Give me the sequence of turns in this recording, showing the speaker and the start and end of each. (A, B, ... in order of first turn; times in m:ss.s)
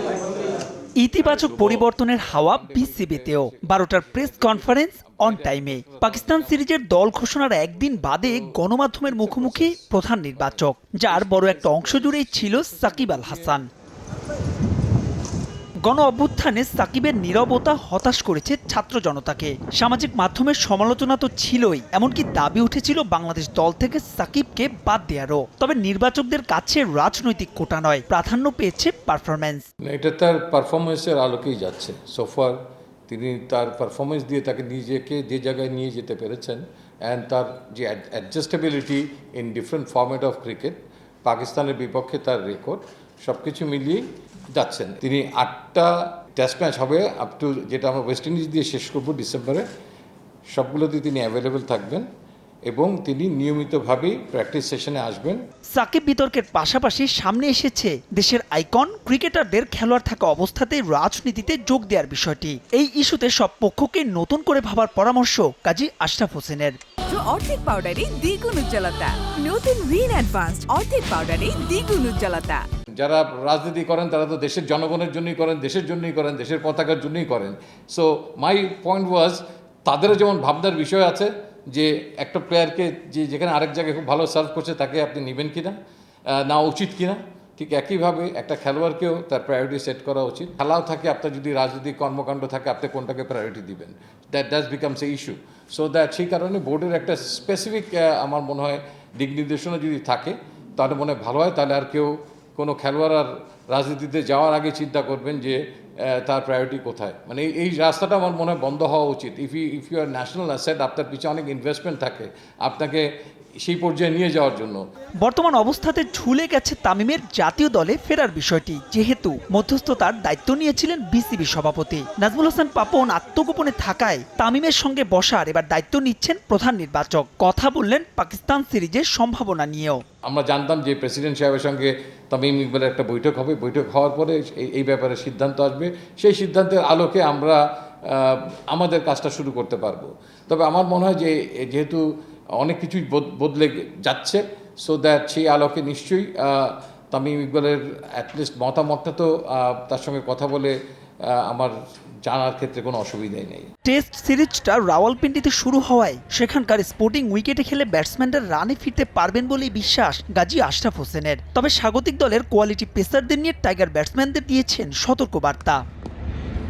0:01.0-0:13.7 A
0:01.2-0:13.6 B
0:15.9-0:29.7 A
0:29.8-0:49.7 B
0:50.6-0:52.1 B
0:52.7-0:55.4 B
0:55.8-1:06.8 A
1:07.1-1:12.6 C
1:13.0-1:25.8 B
1:26.3-1:53.1 B
1:53.6-1:54.8 B
1:55.2-2:10.0 A
2:10.2-2:31.7 B
2:32.2-2:33.7 B
2:33.9-2:45.8 A